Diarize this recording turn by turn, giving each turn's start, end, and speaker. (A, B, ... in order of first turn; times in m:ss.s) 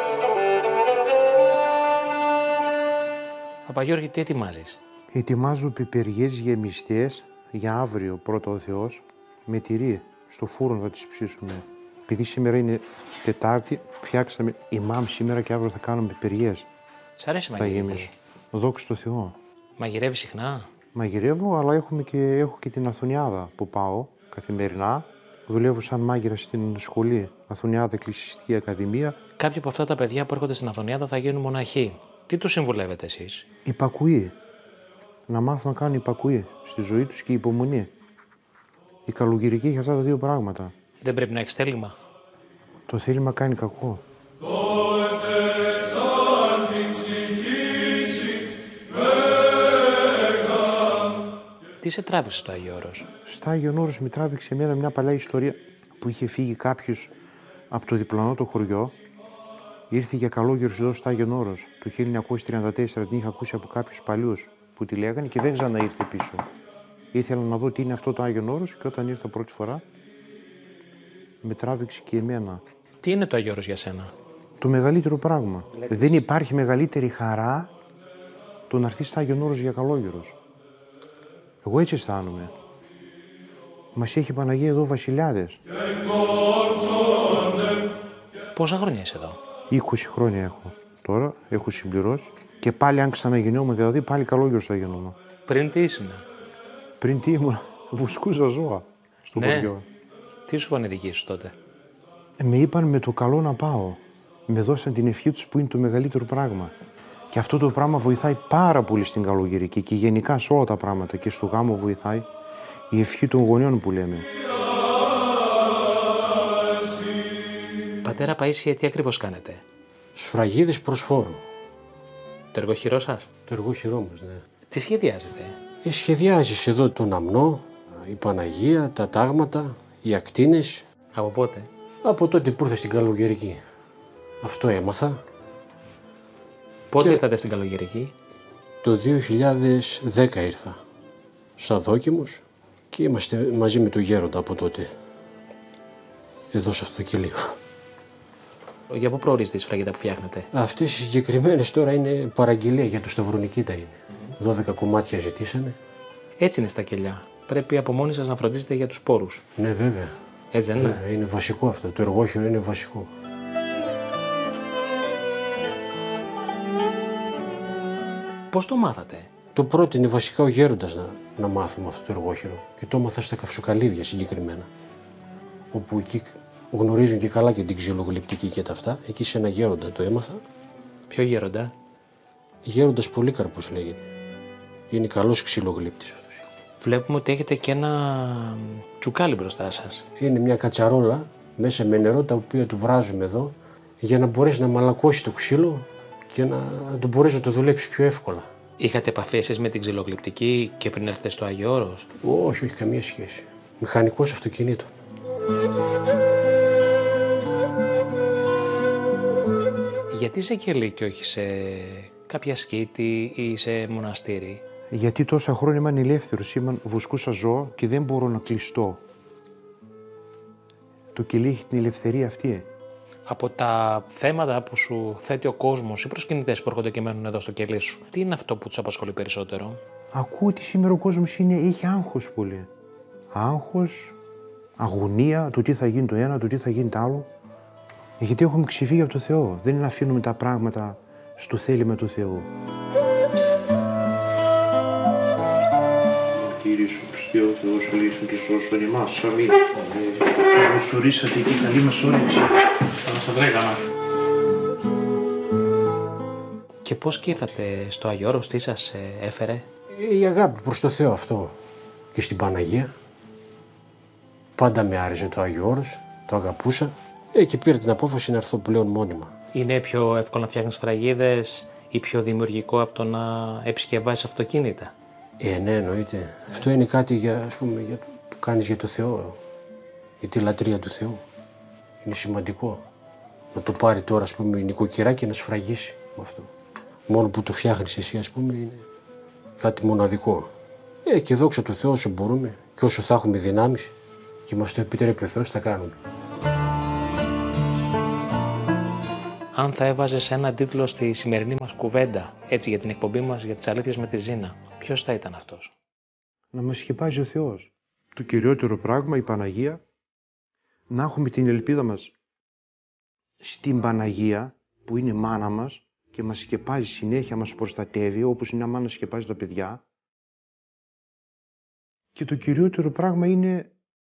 0:03.7-0:04.8 A
0:05.1-0:16.7 B
0:17.2-0:18.1 A
0:17.6-0:19.4 B
0:19.8-0:20.7 A
0:21.0-0:29.2 B
0:29.4-0:33.4 A
0:33.7-0:34.4 B
0:35.3-0:37.9 B
0:39.1-0:40.7 B
0:41.0-0:42.0 A
0:42.9-0:44.0 B
0:51.8-0:53.1 A
0:53.2-0:57.1 B
0:57.7-0:59.0 B
0:59.9-1:06.5 B
1:07.1-1:09.8 B
1:11.4-1:12.6 B
1:13.0-1:14.1 A
1:14.6-1:17.7 B
1:18.7-1:20.4 B
1:21.6-1:22.5 B
1:23.9-1:25.6 B
1:28.6-1:29.4 A
1:29.7-1:35.2 B
1:35.5-1:36.2 A
1:37.0-1:39.8 B
1:39.4-1:39.8 A
1:40.5-1:41.6 A
1:42.4-1:46.7 B
1:47.3-1:52.3 B
1:52.9-1:54.3 B
1:58.0-1:59.6 A
2:00.2-2:01.4 C
2:02.5-2:03.3 A
2:03.5-2:04.4 C
2:04.7-2:05.6 A
2:05.8-2:10.9 C
2:11.1-2:11.7 A
2:12.0-2:13.6 C
2:14.4-2:15.2 C
2:16.9-2:18.1 A
2:18.8-2:20.8 C
2:21.6-2:24.9 C
2:26.5-2:27.6 C
2:28.9-2:30.5 A
2:30.5-2:35.8 C
2:36.4-2:39.4 A
2:39.6-2:40.2 C
2:40.5-2:41.0 A
2:40.8-2:43.1 C
2:48.5-2:49.3 A
2:49.6-2:54.7 C
2:55.7-3:00.4 C
3:01.1-3:01.7 A
3:02.6-3:04.1 C
3:04.9-3:06.4 C
3:06.8-3:10.0 A
3:10.2-3:18.5 C
3:18.8-3:22.1 A
3:22.2-3:24.9 C
3:30.1-3:34.6 A
3:34.9-3:39.0 B
3:41.1-3:42.7 B
3:43.3-3:49.8 A
3:50.1-3:52.7 B
3:53.3-3:54.2 B
3:54.8-3:57.3 B
3:58.2-4:02.5 B
4:06.3-4:13.8 B
4:16.8-4:19.7 A
4:19.9-4:21.6 C
4:22.2-4:22.9 C
4:24.6-4:29.3 C
4:29.5-4:34.9 A
4:35.4-4:39.4 C
4:40.2-4:41.2 C
4:42.0-4:42.8 C
4:43.5-4:46.5 C
4:47.1-4:48.8 C
4:49.6-4:50.5 C
4:51.1-4:53.9 C
4:54.5-4:56.0 C
4:59.5-5:05.7 A
5:06.5-5:09.8 B
5:10.9-5:12.1 B
5:13.4-5:19.8 B
5:22.2-5:23.7 B